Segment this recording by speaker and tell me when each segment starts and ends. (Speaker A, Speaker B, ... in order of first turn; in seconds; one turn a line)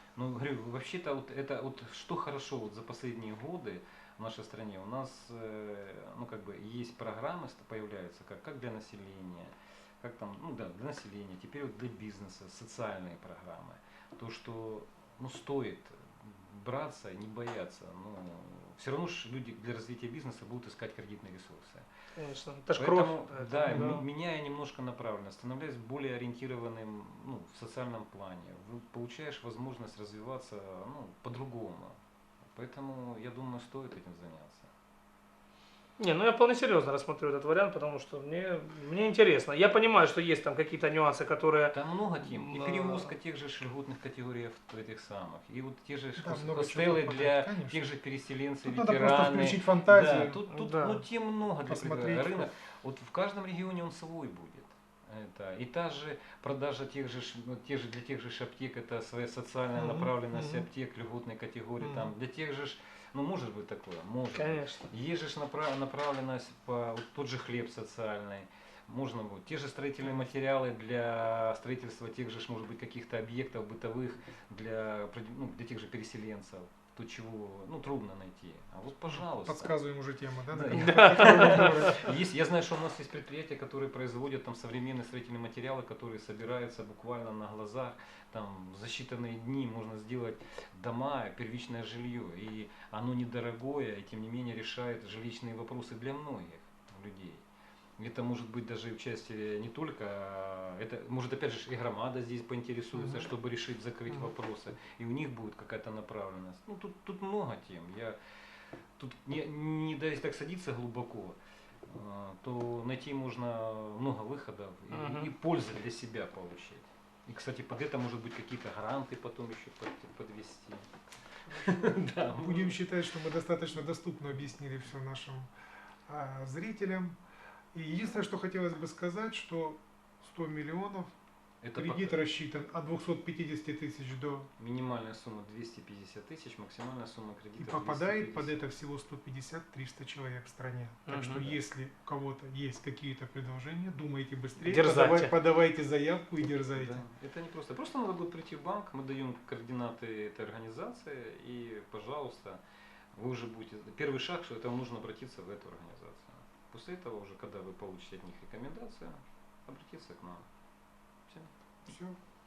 Speaker A: 0.1-21.9
Speaker B: 22.2-24.0
Speaker A: 22.8-32.0
Speaker C: 23.7-23.9
Speaker A: 32.5-34.7
Speaker B: 36.0-43.1
Speaker A: 41.7-79.7
Speaker C: 46.2-47.8
Speaker C: 48.6-50.4
Speaker B: 50.5-51.0
Speaker C: 51.6-52.5
Speaker C: 59.8-60.6
Speaker C: 61.8-62.1
Speaker B: 64.3-64.9
Speaker C: 79.1-82.1
Speaker A: 80.5-97.4
Speaker B: 80.7-81.9
Speaker A: 98.0-108.2
Speaker C: 102.9-103.3
Speaker A: 109.0-120.9
Speaker B: 114.9-115.3
Speaker A: 121.5-122.8
Speaker C: 121.6-125.5
Speaker C: 126.1-127.2
Speaker C: 127.7-131.1
Speaker A: 131.6-132.2
Speaker C: 131.7-134.5
Speaker A: 134.6-138.6
Speaker C: 137.6-147.0
Speaker B: 141.1-141.4
Speaker B: 144.6-145.3
Speaker A: 146.7-152.6
Speaker A: 153.1-160.5
Speaker C: 161.9-162.2